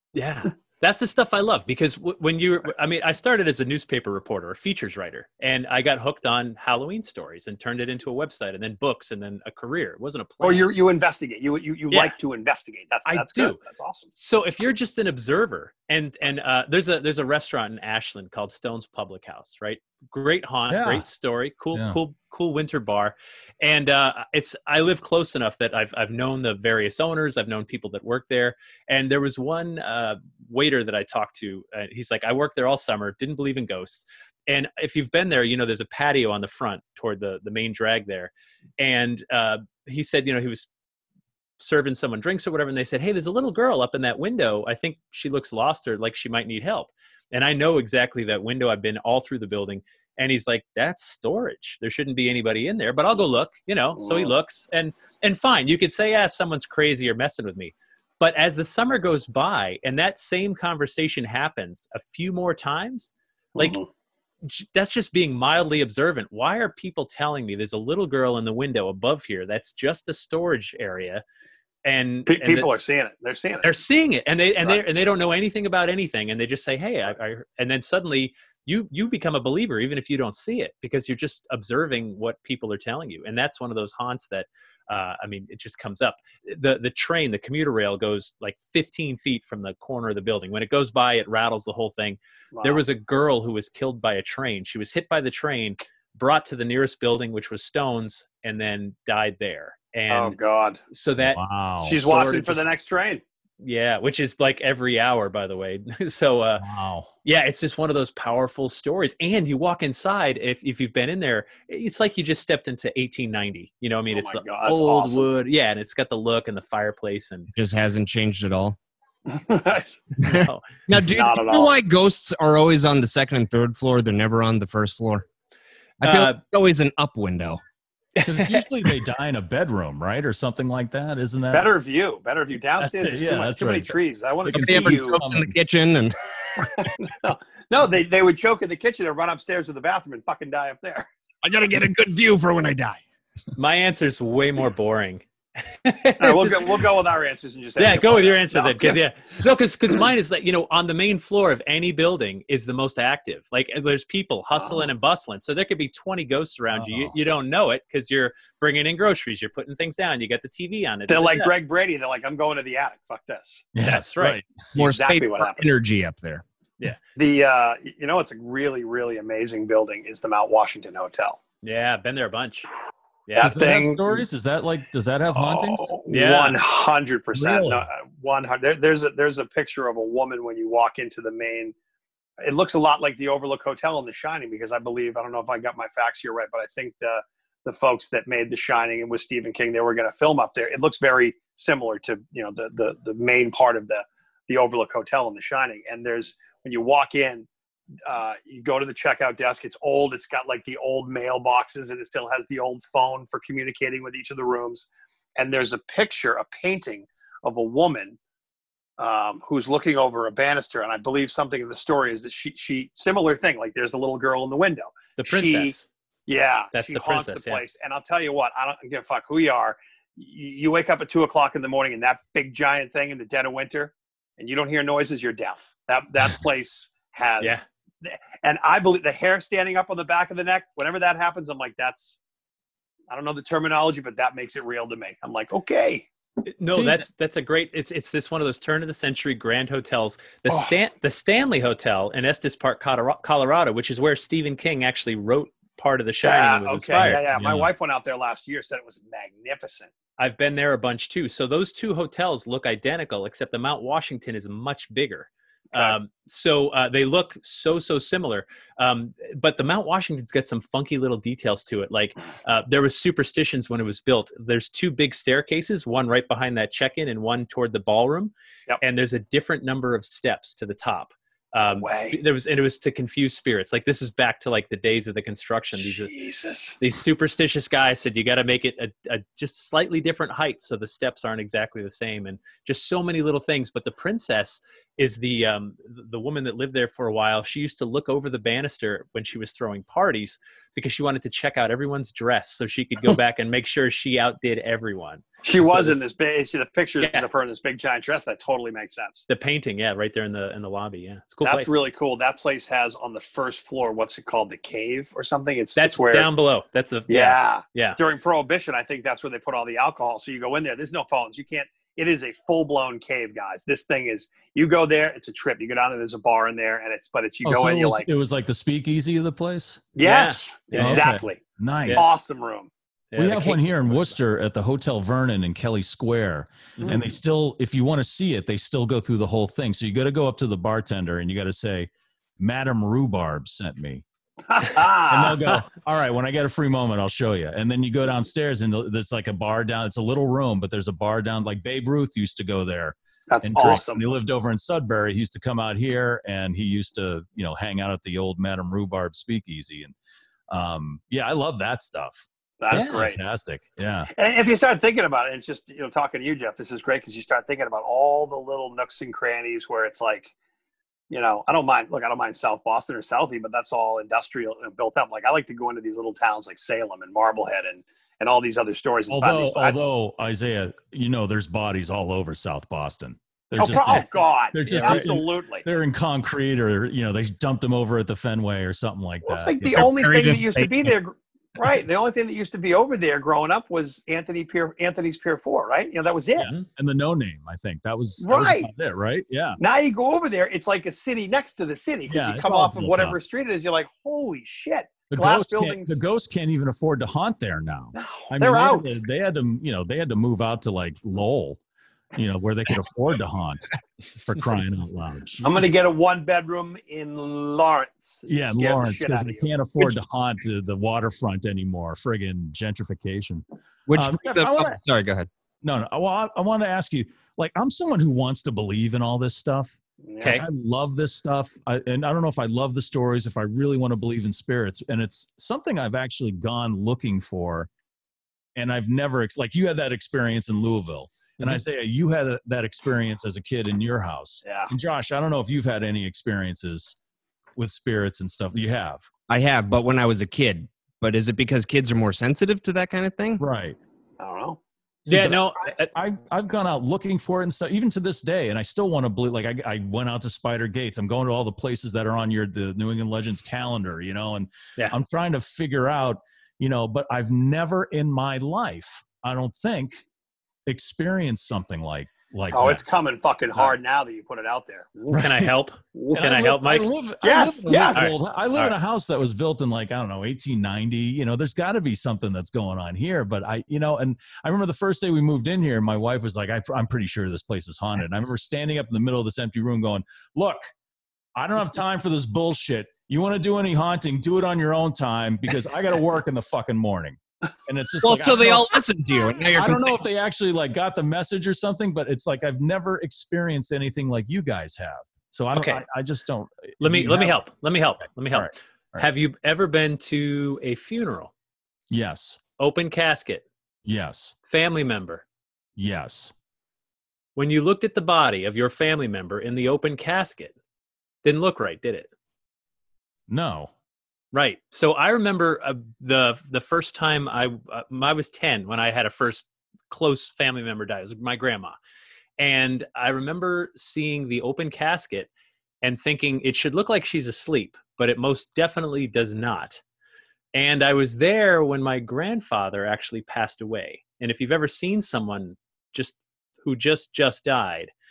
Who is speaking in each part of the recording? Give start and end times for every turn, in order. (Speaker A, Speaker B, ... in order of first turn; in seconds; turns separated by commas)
Speaker A: 0.1-10.7, Speaker B: 10.4-14.1, Speaker A: 13.1-13.6, Speaker A: 14.2-40.7, Speaker C: 20.7-21.1, Speaker C: 21.7-22.0, Speaker A: 41.6-63.8, Speaker B: 54.0-54.3, Speaker B: 63.6-63.9, Speaker A: 64.4-71.2, Speaker A: 71.8-72.8, Speaker B: 72.3-73.7, Speaker A: 73.6-100.4, Speaker B: 92.5-92.8, Speaker B: 100.1-100.8, Speaker A: 100.9-102.7, Speaker C: 101.2-102.0, Speaker B: 101.8-103.2, Speaker A: 103.6-106.6, Speaker C: 106.6-107.1, Speaker A: 107.2-117.5, Speaker B: 114.1-115.3, Speaker D: 117.5-118.8, Speaker B: 119.3-120.4, Speaker D: 120.2-125.2, Speaker A: 120.3-120.7, Speaker B: 120.9-121.7, Speaker D: 126.0-127.6, Speaker A: 126.0-126.4, Speaker A: 128.2-128.6, Speaker C: 128.2-131.7, Speaker B: 131.5-135.2, Speaker C: 132.8-135.6, Speaker D: 134.5-136.2, Speaker B: 136.8-141.1, Speaker D: 141.4-143.0, Speaker A: 143.6-146.8, Speaker B: 146.2-149.0, Speaker A: 147.8-161.5, Speaker B: 154.5-154.9, Speaker C: 156.7-157.1, Speaker B: 161.1-163.7, Speaker C: 163.7-164.5, Speaker A: 163.8-164.4, Speaker D: 164.7-166.4, Speaker B: 164.7-165.7, Speaker B: 167.2-171.4, Speaker A: 171.6-172.7, Speaker A: 173.3-173.7, Speaker B: 173.3-174.2, Speaker C: 173.4-175.9, Speaker B: 175.3-181.7, Speaker A: 176.1-176.6, Speaker C: 177.3-177.9, Speaker B: 182.4-197.5, Speaker B: 198.1-208.2, Speaker B: 209.0-215.7, Speaker A: 215.2-215.9, Speaker B: 216.3-232.2, Speaker A: 216.7-217.6, Speaker B: 233.1-236.1, Speaker A: 236.4-247.2, Speaker C: 236.7-237.1, Speaker B: 240.5-240.7, Speaker B: 246.2-249.9, Speaker C: 247.0-247.7, Speaker A: 250.2-276.1, Speaker B: 271.6-272.2, Speaker B: 275.8-276.8, Speaker A: 276.8-296.0, Speaker B: 295.4-299.3, Speaker A: 297.0-297.3, Speaker A: 299.3-301.7, Speaker B: 301.4-306.3, Speaker A: 305.8-308.0, Speaker B: 307.1-318.1, Speaker C: 317.4-319.8, Speaker B: 319.9-322.7, Speaker A: 320.0-321.1, Speaker C: 320.8-322.1, Speaker A: 323.1-324.1, Speaker C: 323.2-334.0, Speaker B: 326.8-327.1, Speaker B: 334.5-335.4, Speaker C: 335.1-349.9, Speaker B: 343.3-344.0, Speaker C: 350.5-354.1, Speaker B: 352.6-353.2, Speaker A: 352.7-353.0, Speaker B: 354.1-360.3, Speaker B: 361.1-369.8, Speaker C: 369.1-380.1, Speaker B: 373.6-375.6, Speaker A: 373.8-374.1, Speaker A: 374.6-375.1, Speaker B: 379.2-386.5, Speaker D: 379.7-380.9, Speaker A: 386.4-386.7, Speaker C: 386.8-389.6, Speaker B: 388.2-388.7, Speaker B: 389.6-396.0, Speaker C: 392.1-393.2, Speaker C: 395.1-401.6, Speaker B: 397.9-398.9, Speaker C: 402.1-403.6, Speaker C: 404.2-405.7, Speaker B: 405.4-409.9, Speaker C: 408.2-414.8, Speaker D: 413.9-415.3, Speaker C: 415.6-427.7, Speaker B: 420.1-420.4, Speaker A: 420.2-420.4, Speaker C: 428.6-436.9, Speaker B: 434.4-434.7, Speaker C: 437.6-439.1, Speaker D: 439.3-443.4, Speaker C: 443.4-443.8, Speaker B: 444.2-444.6, Speaker A: 445.1-445.9, Speaker C: 445.1-460.0, Speaker C: 460.6-462.8, Speaker B: 462.5-466.3, Speaker A: 465.1-466.9, Speaker C: 466.1-480.7, Speaker B: 467.2-468.1, Speaker A: 467.9-468.7, Speaker C: 481.4-488.8, Speaker D: 488.0-490.0, Speaker C: 489.5-497.4, Speaker A: 495.5-495.8, Speaker A: 496.8-501.3, Speaker C: 498.3-499.1, Speaker C: 501.9-502.4, Speaker A: 502.6-503.4, Speaker C: 503.8-504.3, Speaker A: 504.5-505.2, Speaker C: 505.8-506.3, Speaker A: 507.4-510.5, Speaker A: 511.2-512.1, Speaker C: 513.3-513.7, Speaker A: 514.3-521.8, Speaker A: 522.4-525.3, Speaker A: 525.8-529.8, Speaker A: 530.5-537.9